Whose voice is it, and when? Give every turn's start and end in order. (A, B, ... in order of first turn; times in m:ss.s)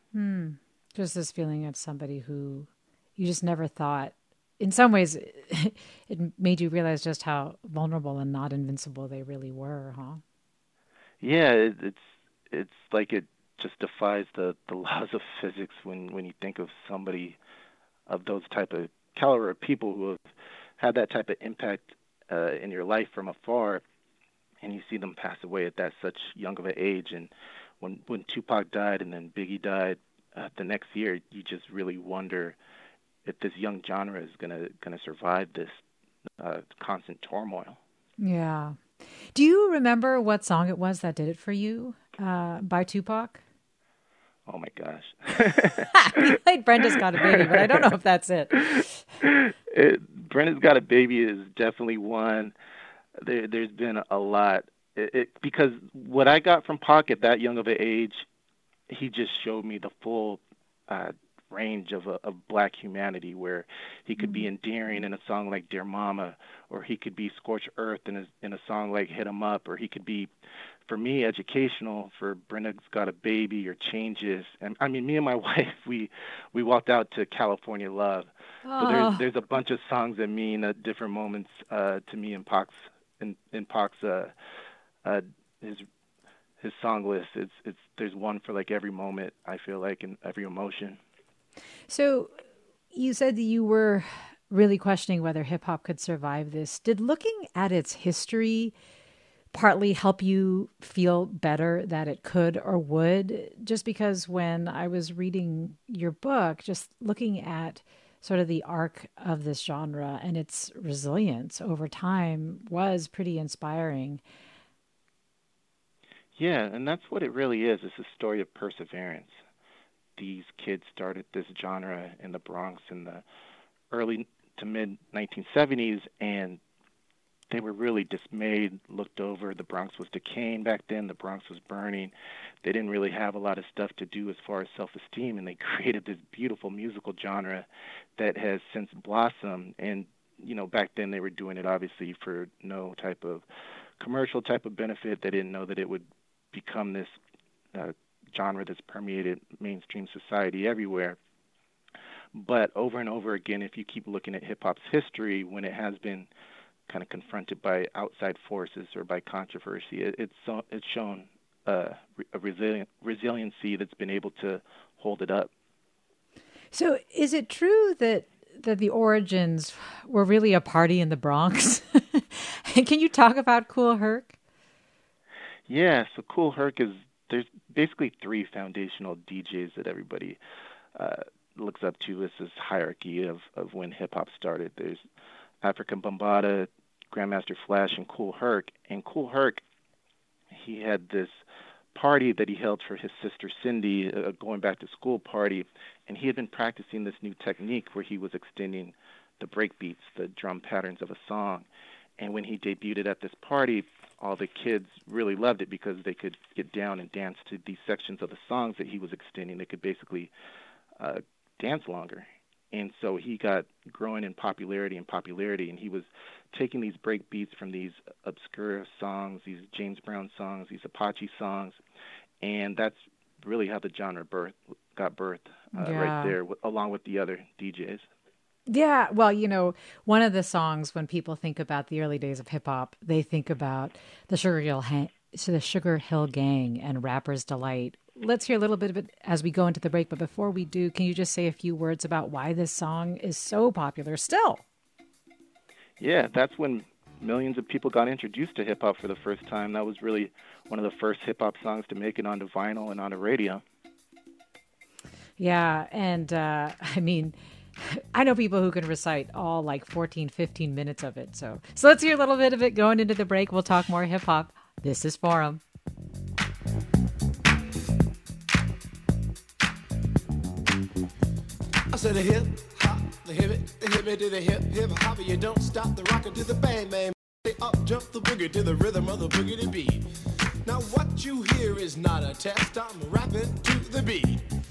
0:00.1-0:10.2 A
0:11.2-0:17.4 B
0:18.1-0:20.2 B
0:20.8-0:23.8 B
0:24.6-0:32.6 B
0:33.2-0:35.8 B
0:36.4-0:37.8 B
0:38.2-0:43.4 A
0:44.5-0:46.1 B
0:45.9-0:49.0 A
0:47.2-0:47.7 B
0:48.6-0:52.5 B
0:53.2-0:58.3 B
0:58.9-1:10.3 B
1:04.2-1:04.5 A
1:10.9-1:24.3 B
1:18.6-1:19.2 A
1:25.0-1:25.8 B
1:26.6-1:31.0 B
1:31.9-1:32.4 A
1:32.9-1:38.7 A
1:39.5-1:54.2 A
1:56.4-1:59.4 B
2:00.2-2:03.2 B
2:03.9-2:06.6 B
2:07.5-2:23.4 B
2:24.0-2:27.2 B
2:27.7-2:31.2 B
2:32.3-2:36.3 B
2:36.9-2:45.5 B
2:46.7-2:54.4 A
2:55.7-3:00.4 B
3:01.0-3:05.0 B
3:05.6-3:09.6 B
3:10.5-3:11.4 B
3:11.9-3:21.7 B
3:22.2-3:30.3 B
3:31.0-3:41.8 B
3:42.4-3:48.1 B
3:45.7-3:46.4 A
3:48.7-4:04.6 A
4:06.0-4:13.6 B
4:15.4-4:25.6 A
4:31.9-4:40.1 C
4:40.6-4:44.4 C